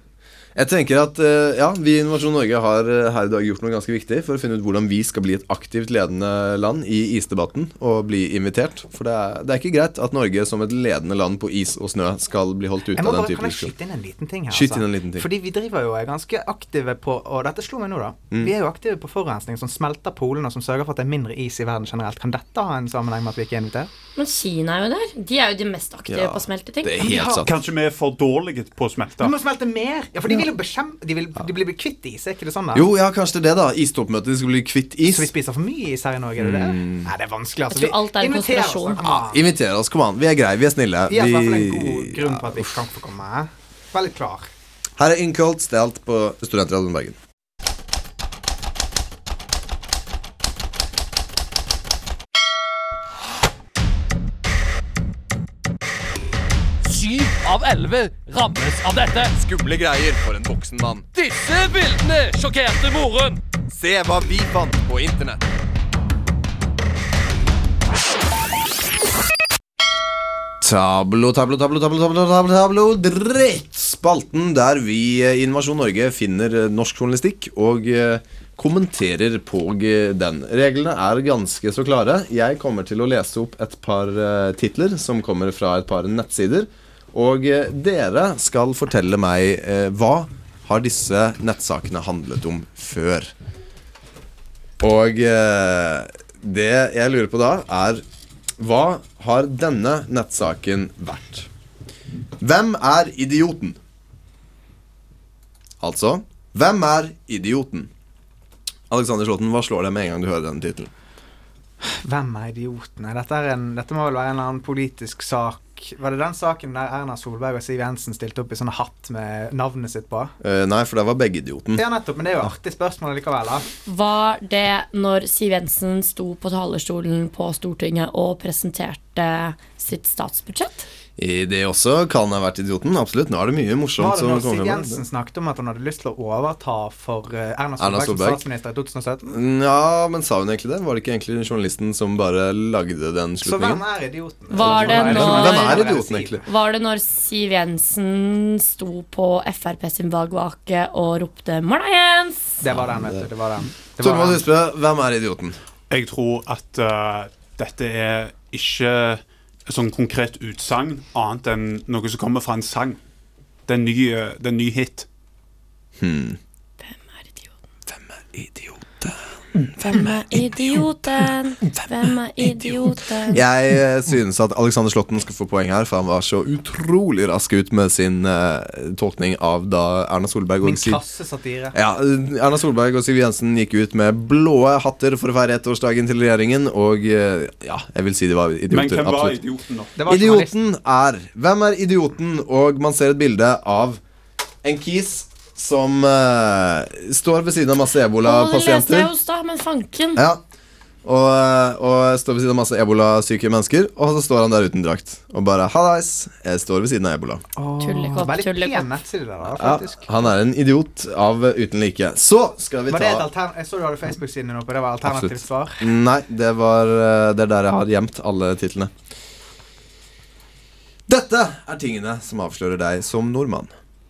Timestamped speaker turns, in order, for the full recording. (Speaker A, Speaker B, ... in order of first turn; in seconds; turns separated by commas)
Speaker A: 0.5-13.7, Speaker B: 12.9-23.9, Speaker A: 14.5-15.3, Speaker C: 24.1-27.1, Speaker A: 26.1-27.5, Speaker B: 27.0-27.5, Speaker D: 27.4-29.3, Speaker B: 29.2-32.9, Speaker A: 32.7-35.3, Speaker B: 35.1-39.4, Speaker A: 36.4-37.1, Speaker C: 37.7-39.0, Speaker A: 39.0-42.7, Speaker B: 41.1-44.5, Speaker A: 45.0-47.2, Speaker E: 56.8-59.4, Speaker A: 59.3-61.0, Speaker E: 61.1-63.4, Speaker A: 63.7-65.4, Speaker A: 70.6-93.3, Speaker A: 94.8-98.0, Speaker A: 98.6-101.5, Speaker A: 102.4-103.8, Speaker A: 105.8-107.9, Speaker A: 108.9-110.9, Speaker B: 111.8-120.3, Speaker A: 120.4-121.8, Speaker B: 121.7-123.7, Speaker C: 123.8-130.8, Speaker A: 131.2-135.0, Speaker B: 134.0-139.4, Speaker A: 137.8-138.4, Speaker A: 139.3-143.8, Speaker B: 143.4-146.4, Speaker C: 144.5-145.9, Speaker A: 144.6-146.4, Speaker C: 146.4-152.6, Speaker B: 152.6-154.4, Speaker A: 152.7-153.3, Speaker A: 154.0-155.6, Speaker D: 155.9-163.0, Speaker D: 163.7-165.1, Speaker A: 166.0-166.4, Speaker C: 166.8-167.5, Speaker A: 167.9-169.2, Speaker C: 169.8-173.4, Speaker A: 169.8-170.8, Speaker A: 172.4-181.0, Speaker B: 180.6-181.7, Speaker A: 181.7-189.4, Speaker D: 188.7-189.9, Speaker B: 189.9-190.5, Speaker A: 190.1-194.0, Speaker A: 194.6-199.1, Speaker C: 198.2-200.2, Speaker A: 200.2-200.4, Speaker A: 201.0-207.4, Speaker B: 207.6-210.1, Speaker C: 207.8-208.9, Speaker A: 209.4-213.3, Speaker B: 212.9-215.8, Speaker A: 215.0-218.9, Speaker A: 221.1-223.7